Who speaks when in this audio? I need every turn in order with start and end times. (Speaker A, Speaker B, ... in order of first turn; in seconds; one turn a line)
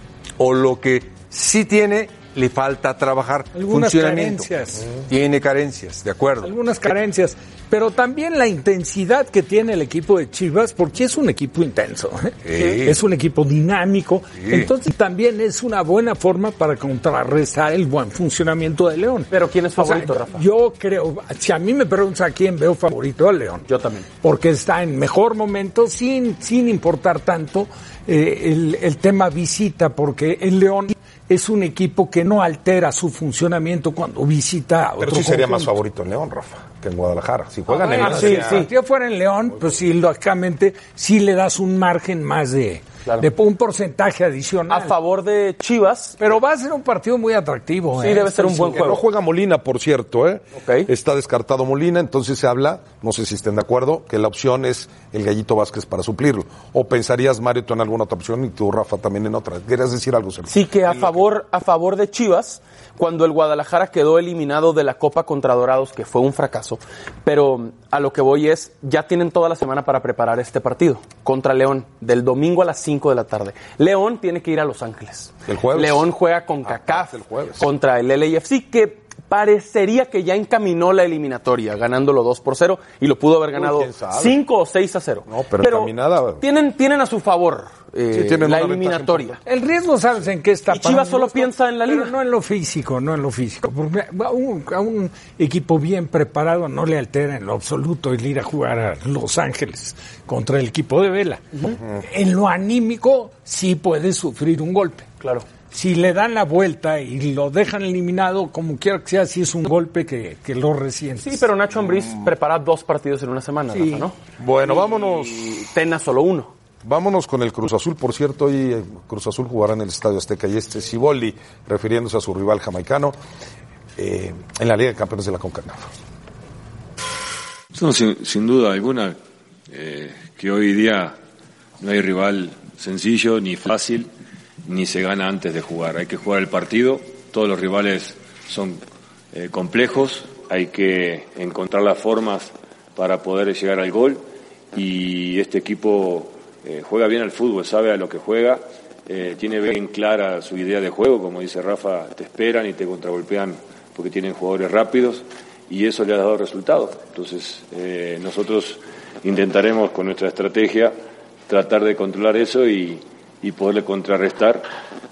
Speaker A: 0.4-4.5
Speaker B: 3.5-4.8
Speaker A: 5.1-6.5
Speaker B: 6.4-23.6
Speaker A: 12.4-13.0
Speaker A: 14.4-14.7
Speaker C: 19.3-20.4
Speaker C: 23.7-24.1
Speaker B: 24.2-35.7
Speaker D: 35.0-38.7
Speaker B: 37.7-44.9
Speaker C: 37.9-38.7
Speaker C: 44.7-46.2
Speaker B: 46.2-48.8
Speaker C: 48.0-49.0
Speaker D: 48.7-61.3
Speaker C: 50.5-50.9
Speaker C: 60.5-89.4
Speaker D: 75.5-76.1
Speaker D: 76.7-77.7
Speaker D: 83.5-84.4
Speaker D: 85.3-86.4
Speaker D: 88.1-89.4
Speaker B: 89.5-105.1
Speaker C: 90.7-92.1
Speaker B: 105.7-111.5
Speaker C: 111.2-116.5
Speaker B: 113.7-114.0
Speaker D: 114.4-115.5
Speaker D: 116.8-123.2
Speaker D: 124.0-125.9
Speaker E: 127.7-129.2
Speaker E: 129.7-131.2
Speaker E: 131.8-134.1
Speaker E: 134.7-138.8
Speaker E: 139.3-160.9
Speaker E: 161.5-164.7